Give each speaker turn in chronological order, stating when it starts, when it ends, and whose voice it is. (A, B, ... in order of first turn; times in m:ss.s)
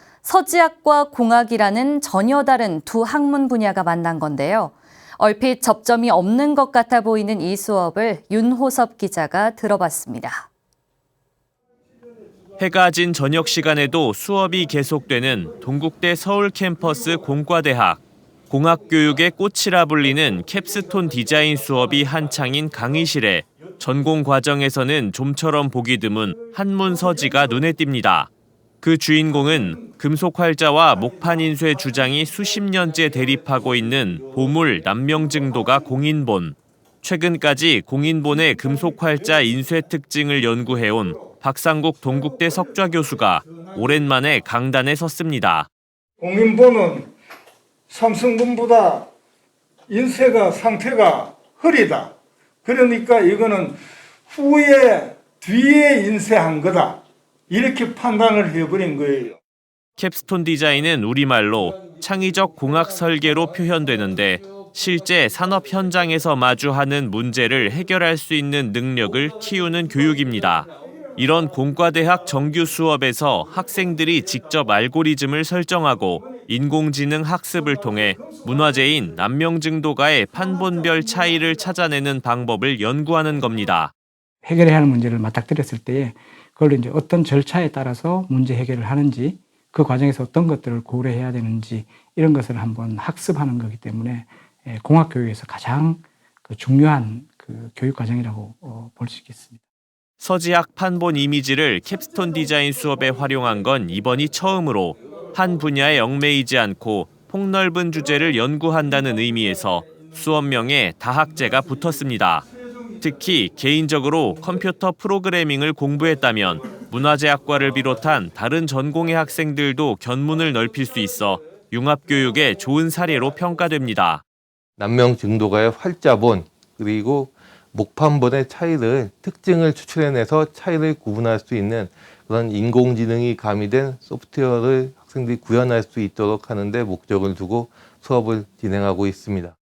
0:00.2-0:10.5 A
0:12.6-0:28.3 B
0:28.8-0:45.7 B
0:46.2-0:47.1 C
0:47.9-0:49.1 C
0:49.9-0:52.1 C
0:52.6-0:53.8 C
0:54.3-0:59.4 C
1:00.0-1:23.9 B
1:24.4-1:39.6 D
1:40.2-1:52.5 B
1:53.0-2:04.2 B
2:04.8-2:19.6 E